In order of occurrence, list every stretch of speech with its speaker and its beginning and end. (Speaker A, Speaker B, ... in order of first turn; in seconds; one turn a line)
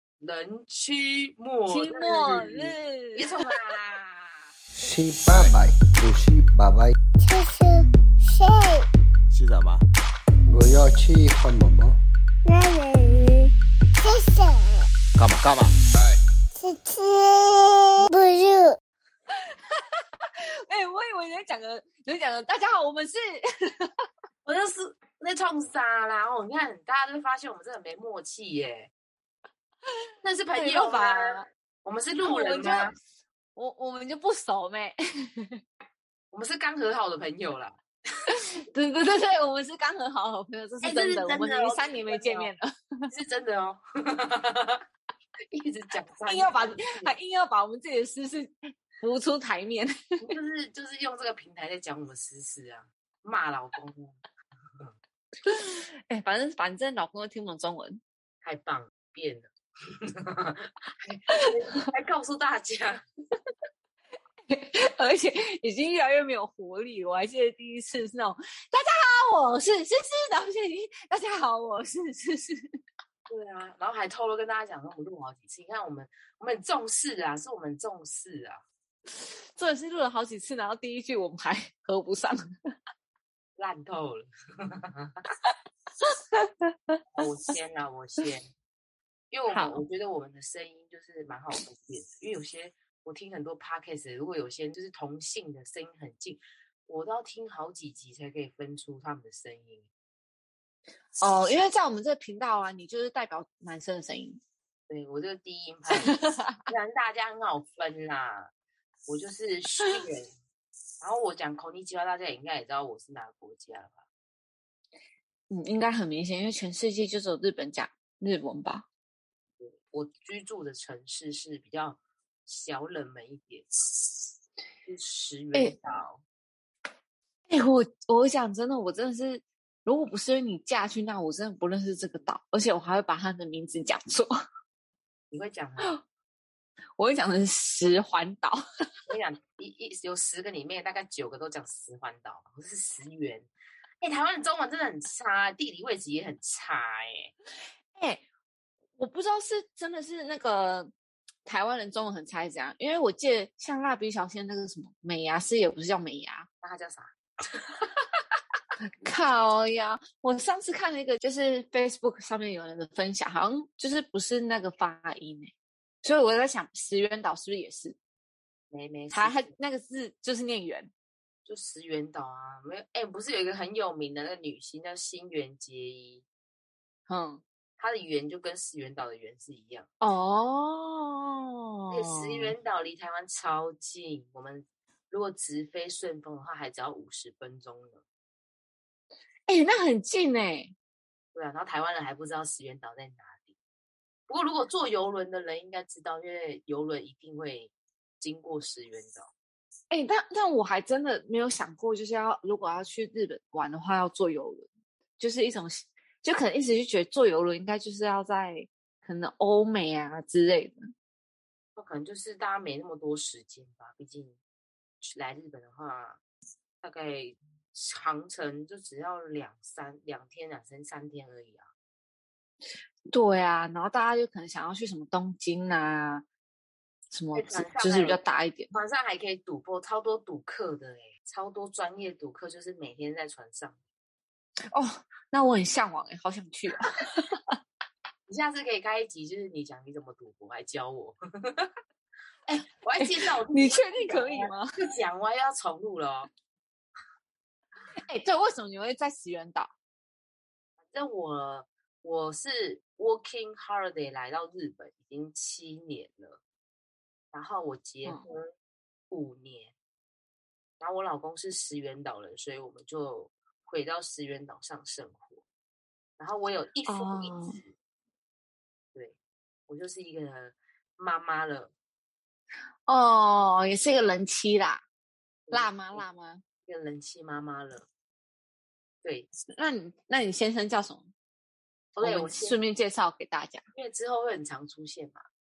Speaker A: 0.2-4.5
Speaker B: 1.7-3.3
Speaker C: 4.8-6.9
Speaker D: 5.3-5.6
Speaker E: 7.2-8.8
Speaker D: 9.3-9.8
Speaker C: 10.5-12.0
Speaker E: 12.4-14.8
Speaker D: 15.1-16.2
Speaker E: 16.6-18.8
Speaker B: 19.7-20.0
Speaker B: 20.7-23.9
Speaker A: 24.4-28.9
Speaker A: 30.2-32.9
Speaker B: 30.5-31.4
Speaker B: 32.2-32.9
Speaker B: 33.5-35.6
Speaker A: 36.3-37.8
Speaker B: 38.3-43.1
Speaker A: 40.8-42.5
Speaker A: 43.1-44.8
Speaker A: 45.5-47.1
Speaker B: 46.3-50.2
Speaker A: 50.2-54.2
Speaker B: 55.4-58.0
Speaker A: 58.4-59.5
Speaker A: 60.0-63.0
Speaker B: 64.5-72.7
Speaker A: 73.3-78.6
Speaker B: 79.5-82.4
Speaker A: 83.6-84.3
Speaker A: 84.8-85.1
Speaker B: 86.0-87.0
Speaker A: 87.1-88.5
Speaker A: 89.3-99.9
Speaker B: 89.5-89.8
Speaker B: 101.2-104.4
Speaker A: 104.9-108.5
Speaker B: 105.9-106.6
Speaker A: 109.1-110.3
Speaker A: 111.0-114.0
Speaker B: 115.5-118.9
Speaker A: 119.6-124.2
Speaker A: 124.8-126.2
Speaker B: 127.5-134.3
Speaker A: 135.3-135.9
Speaker B: 137.0-138.6
Speaker A: 139.1-143.5
Speaker A: 144.0-147.3
Speaker B: 147.9-148.2
Speaker B: 149.0-150.9
Speaker B: 151.4-156.5
Speaker A: 156.6-157.8
Speaker B: 159.0-165.5
Speaker B: 166.0-167.9
Speaker A: 168.7-169.5
Speaker B: 169.1-170.9
Speaker A: 171.4-176.2
Speaker B: 177.1-177.4
Speaker A: 177.8-179.9
Speaker B: 180.0-182.5
Speaker A: 181.9-188.0
Speaker B: 189.5-190.7
Speaker A: 191.3-193.5
Speaker A: 194.3-199.3
Speaker B: 199.9-204.7
Speaker B: 205.2-210.8
Speaker A: 211.8-214.4
Speaker A: 215.0-216.2
Speaker A: 216.8-221.7
Speaker B: 223.1-226.2
Speaker B: 227.1-228.7
Speaker A: 227.3-228.2
Speaker A: 228.7-233.8
Speaker B: 234.7-237.6
Speaker A: 238.3-241.7
Speaker A: 242.4-246.3
Speaker B: 243.0-244.7
Speaker B: 248.0-249.7
Speaker A: 250.9-256.4
Speaker A: 257.3-258.5
Speaker A: 259.1-259.7
Speaker A: 260.8-265.4
Speaker A: 266.2-267.7
Speaker B: 266.9-267.6
Speaker A: 269.7-271.7
Speaker B: 272.9-274.8
Speaker A: 275.5-276.0
Speaker B: 275.5-276.4
Speaker A: 276.6-277.9
Speaker B: 279.5-281.1
Speaker A: 281.9-282.6
Speaker B: 282.0-283.6
Speaker A: 283.7-285.2